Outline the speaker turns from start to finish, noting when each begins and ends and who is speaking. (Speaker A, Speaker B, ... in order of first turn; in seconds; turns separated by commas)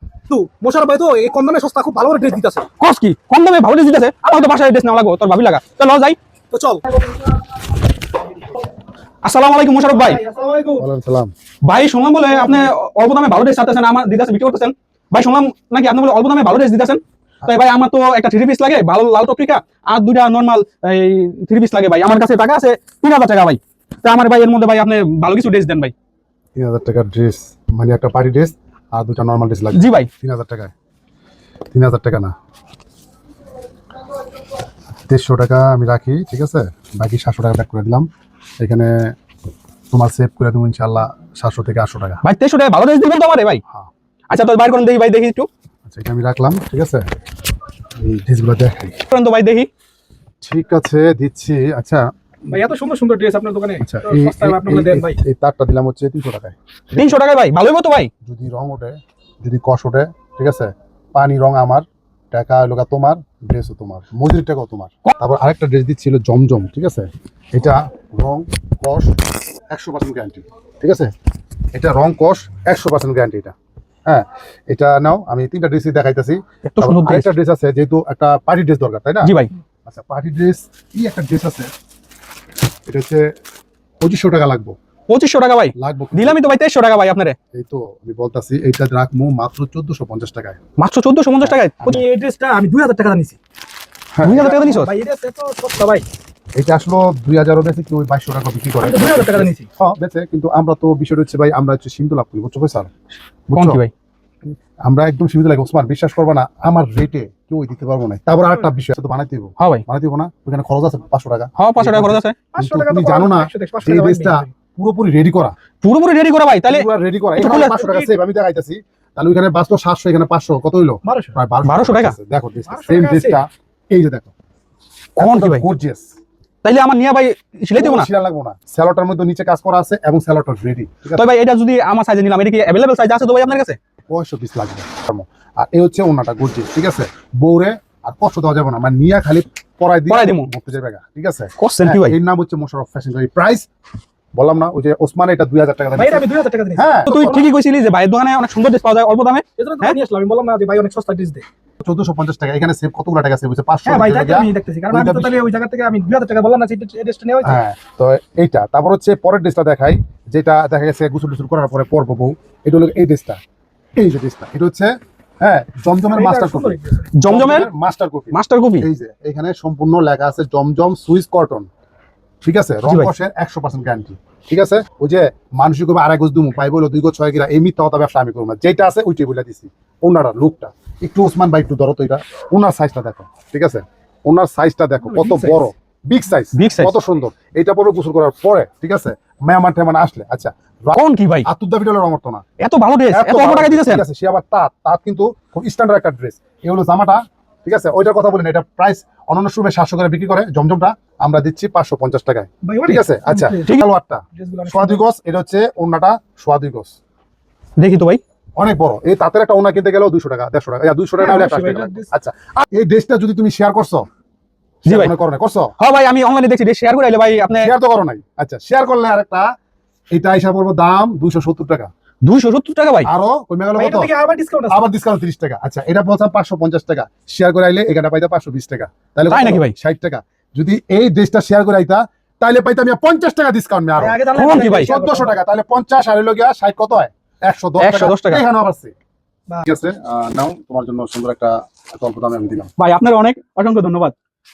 Speaker A: 0.3-2.7, Speaker B: 2.8-6.2, Speaker A: 6.5-6.9, Speaker B: 9.2-10.2, Speaker A: 9.9-10.8, Speaker C: 10.8-11.3, Speaker B: 11.7-25.9, Speaker C: 26.6-30.7, Speaker B: 29.7-30.1, Speaker C: 31.7-32.3, Speaker C: 35.1-38.1, Speaker C: 38.6-39.1, Speaker C: 39.9-42.2, Speaker B: 42.2-43.6, Speaker B: 44.3-45.5, Speaker C: 45.9-47.0, Speaker C: 48.0-49.0, Speaker B: 49.1-49.7, Speaker C: 50.4-52.6, Speaker A: 52.5-55.2, Speaker C: 53.8-57.1, Speaker B: 56.9-58.1, Speaker C: 58.2-71.1, Speaker C: 71.7-73.5, Speaker C: 74.1-79.3, Speaker B: 76.7-77.3, Speaker B: 79.2-79.5, Speaker C: 79.9-81.7, Speaker C: 82.9-83.3, Speaker C: 84.0-84.8, Speaker B: 85.1-87.4, Speaker C: 85.8-86.4, Speaker C: 87.5-90.6, Speaker B: 90.8-92.0, Speaker C: 91.4-92.0, Speaker A: 91.9-93.4, Speaker C: 94.2-94.6, Speaker B: 94.2-94.9, Speaker A: 94.3-96.0, Speaker C: 96.6-102.9, Speaker A: 98.8-99.7, Speaker C: 103.5-103.8, Speaker B: 103.5-103.9, Speaker C: 104.5-115.5, Speaker B: 109.6-109.8, Speaker B: 111.6-112.4, Speaker A: 112.5-114.5, Speaker B: 115.8-116.9, Speaker C: 116.7-124.3, Speaker B: 117.4-117.8, Speaker A: 117.4-118.1, Speaker A: 121.0-121.4, Speaker B: 121.6-122.2, Speaker A: 122.7-123.4, Speaker B: 125.2-125.7, Speaker C: 125.2-126.1, Speaker B: 126.6-128.1, Speaker C: 127.8-131.3, Speaker B: 131.2-133.8, Speaker C: 134.1-143.7, Speaker B: 140.1-140.5, Speaker B: 141.6-142.2, Speaker C: 144.3-147.4, Speaker A: 146.0-147.4, Speaker B: 147.1-150.0, Speaker A: 149.6-151.4, Speaker C: 151.8-155.4, Speaker A: 153.9-157.6, Speaker C: 157.4-163.4, Speaker C: 164.0-171.7, Speaker A: 165.9-167.1, Speaker B: 167.2-167.7, Speaker B: 168.3-168.9, Speaker C: 172.4-192.4, Speaker B: 172.9-173.1, Speaker A: 185.1-185.7, Speaker B: 186.5-186.9, Speaker B: 190.9-191.5, Speaker B: 192.6-194.0, Speaker C: 193.1-207.0, Speaker A: 202.6-203.8, Speaker A: 204.3-205.0, Speaker B: 207.8-208.2, Speaker C: 208.6-214.1, Speaker A: 211.2-212.1, Speaker B: 214.8-215.1, Speaker C: 214.8-215.7, Speaker B: 215.8-217.7, Speaker C: 217.6-219.5, Speaker C: 220.1-221.9, Speaker B: 222.2-223.1, Speaker C: 223.1-224.1, Speaker A: 223.8-224.8, Speaker C: 224.7-238.9, Speaker B: 229.3-229.7, Speaker A: 234.0-235.4, Speaker B: 234.3-234.9, Speaker B: 237.8-238.4, Speaker C: 239.6-242.7, Speaker B: 242.8-244.2